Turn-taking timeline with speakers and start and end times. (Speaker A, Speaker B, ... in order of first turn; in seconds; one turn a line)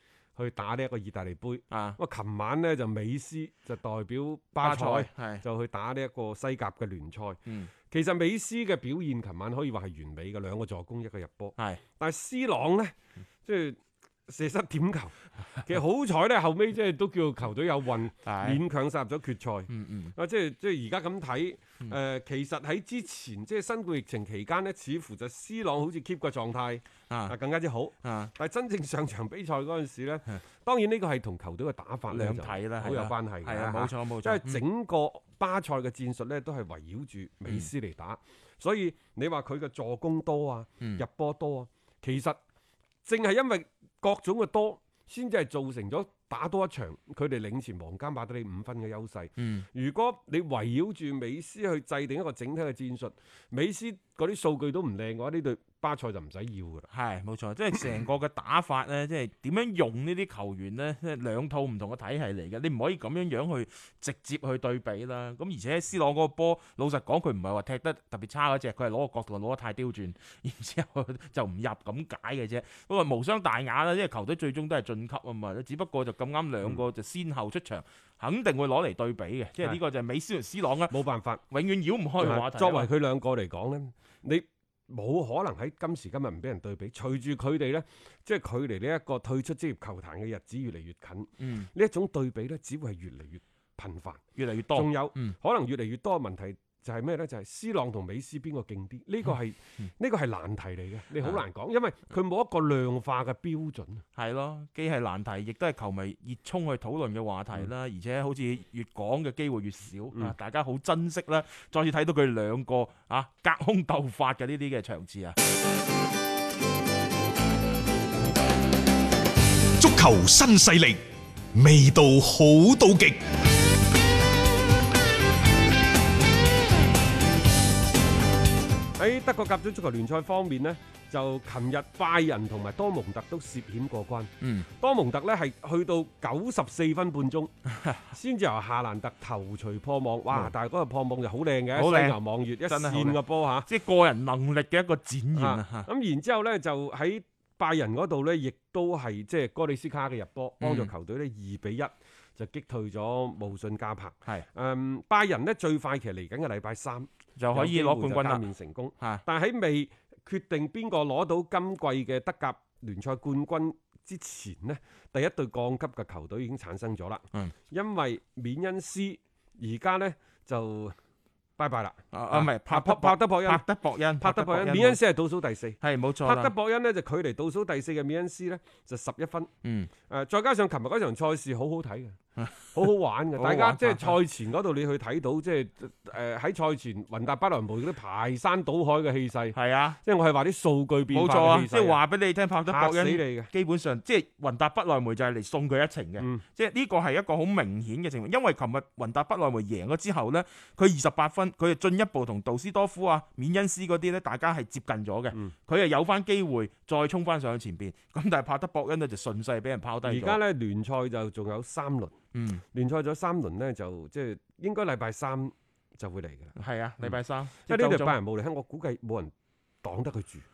Speaker A: 0.3-42.4
Speaker B: 1.7-2.0
Speaker B: 4.6-5.4
Speaker B: 18.2-18.6
Speaker B: 19.7-20.1
Speaker B: 27.1-27.3
Speaker B: 28.0-28.3
Speaker B: 32.1-34.6
Speaker A: 43.0-56.9
Speaker B: 49.4-49.6
Speaker B: 56.9-80.9
Speaker A: 80.9-81.4
Speaker B: 81.5-82.9
Speaker A: 82.2-94.2
Speaker B: 91.4-91.7
Speaker B: 94.3-95.3
Speaker A: 94.7-104.0
Speaker B: 104.2-115.4
Speaker C: 119.8-121.0
Speaker C: 121.5-123.2
Speaker A: 129.0-137.5
Speaker B: 134.4-134.7
Speaker B: 137.7-138.0
Speaker A: 138.1-143.7
Speaker B: 141.7-145.9
Speaker A: 145.3-170.9
Speaker B: 150.6-150.9
Speaker B: 157.4-158.4
Speaker A: 171.6-173.6
Speaker B: 172.1-175.0
Speaker A: 174.2-179.5
Speaker B: 175.8-176.5
Speaker B: 179.6-179.9
Speaker A: 180.1-182.2
Speaker B: 182.4-182.7
Speaker A: 182.7-192.0
Speaker B: 183.3-184.2
Speaker B: 189.5-190.0
Speaker B: 191.1-210.4
Speaker A: 192.7-193.5
Speaker A: 196.2-196.4
Speaker A: 210.0-212.1
Speaker B: 212.3-212.6
Speaker A: 212.7-220.4
Speaker B: 216.6-218.2